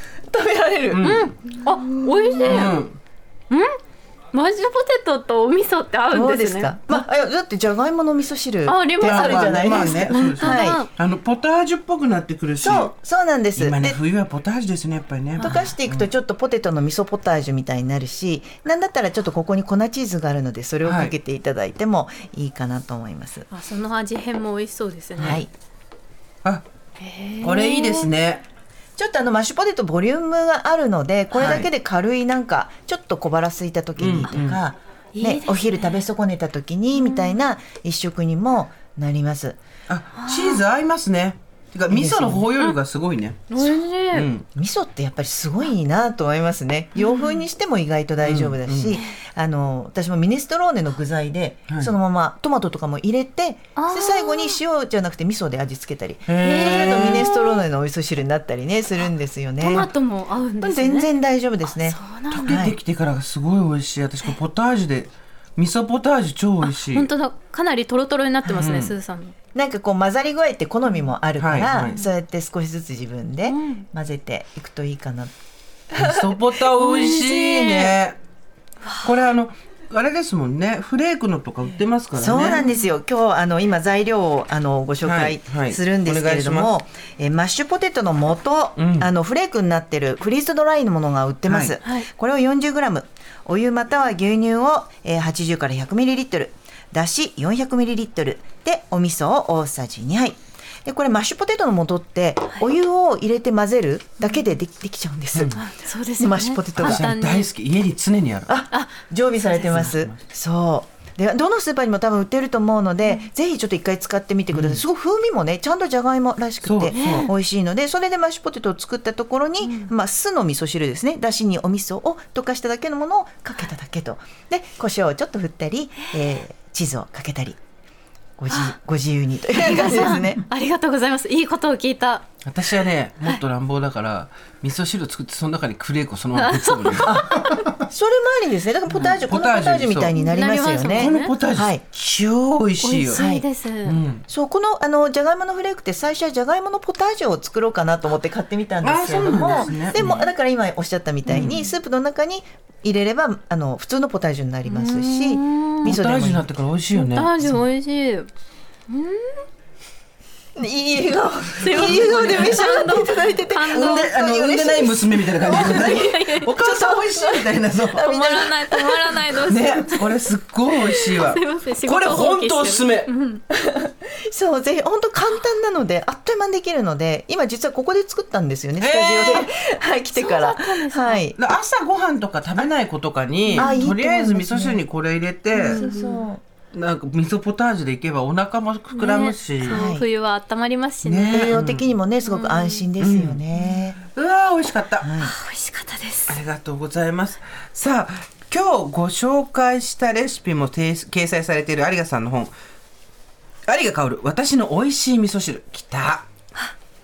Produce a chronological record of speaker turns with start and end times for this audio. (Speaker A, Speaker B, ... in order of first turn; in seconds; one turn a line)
Speaker A: 0.3-1.2
Speaker B: 0.9-1.3
Speaker C: 1.0-2.8
Speaker B: 2.4-3.0
Speaker C: 3.5-3.8
Speaker C: 4.3-6.9
Speaker A: 6.1-10.8
Speaker C: 8.7-10.9
Speaker B: 9.0-12.9
Speaker A: 12.6-14.0
Speaker B: 13.6-16.1
Speaker C: 15.4-15.7
Speaker A: 15.4-23.5
Speaker B: 20.8-21.1
Speaker C: 23.5-25.4
Speaker B: 25.2-25.4
Speaker A: 25.2-25.5
Speaker C: 27.0-28.1
Speaker B: 27.4-28.4
Speaker A: 29.0-39.6
Speaker B: 31.4-31.7
Speaker B: 34.0-34.6
Speaker C: 35.1-36.0
Speaker C: 37.0-37.4
Speaker B: 39.9-44.5
Speaker C: 40.2-40.6
Speaker A: 41.9-42.5
Speaker C: 43.5-44.3
Speaker A: 44.5-59.9
Speaker C: 47.0-47.4
Speaker B: 48.2-49.0
Speaker C: 48.9-49.2
Speaker C: 53.8-54.6
Speaker B: 56.3-57.3
Speaker C: 56.4-57.6
Speaker C: 59.6-61.1
Speaker A: 60.6-62.8
Speaker C: 61.7-62.6
Speaker B: 62.3-67.1
Speaker C: 66.6-69.3
Speaker A: 68.4-68.8
Speaker B: 68.6-68.9
Speaker A: 69.5-75.3
Speaker B: 71.4-72.0
Speaker C: 73.5-73.8
Speaker A: 75.9-76.4
Speaker B: 76.0-78.2
Speaker C: 76.8-78.0
Speaker B: 79.0-82.6
Speaker A: 82.2-105.7
Speaker C: 82.5-82.9
Speaker B: 85.0-86.7
Speaker B: 88.8-89.1
Speaker B: 91.5-91.8
Speaker C: 105.5-107.5
Speaker A: 106.2-107.1
Speaker B: 106.8-108.5
Speaker A: 108.5-127.6
Speaker B: 109.6-110.2
Speaker B: 114.5-114.8
Speaker B: 116.6-117.3
Speaker C: 116.9-117.3
Speaker C: 119.6-119.9
Speaker A: 128.4-130.4
Speaker C: 128.5-128.7
Speaker C: 129.6-132.3
Speaker B: 132.4-137.7
Speaker C: 136.3-137.7
Speaker A: 137.0-141.8
Speaker B: 138.9-140.1
Speaker C: 140.1-141.3
Speaker B: 140.9-143.2
Speaker C: 142.8-144.0
Speaker A: 143.1-143.5
Speaker B: 143.8-144.2
Speaker A: 144.3-156.5
Speaker B: 148.8-150.2
Speaker C: 149.9-150.2
Speaker B: 151.3-151.6
Speaker C: 154.7-155.9
Speaker B: 155.8-157.5
Speaker C: 156.9-158.3
Speaker C: 158.9-159.4
Speaker A: 160.6-169.1
Speaker C: 161.6-164.1
Speaker B: 161.7-162.9
Speaker B: 163.7-168.1
Speaker C: 165.5-166.6
Speaker C: 167.9-170.1
Speaker B: 169.4-173.1
Speaker C: 170.9-173.4
Speaker A: 173.5-181.4
Speaker B: 178.8-179.5
Speaker C: 180.2-181.2
Speaker B: 181.4-185.8
Speaker C: 183.6-183.8
Speaker A: 183.6-184.8
Speaker C: 185.5-186.3
Speaker A: 185.6-186.4
Speaker B: 186.7-189.9
Speaker C: 188.9-191.5
Speaker A: 189.6-190.1
Speaker B: 191.0-191.9
Speaker A: 191.3-194.0
Speaker C: 192.2-192.9
Speaker B: 193.0-193.4
Speaker B: 194.2-195.1
Speaker A: 195.0-195.3
Speaker C: 195.2-196.4
Speaker B: 196.3-202.5
Speaker B: 203.7-206.3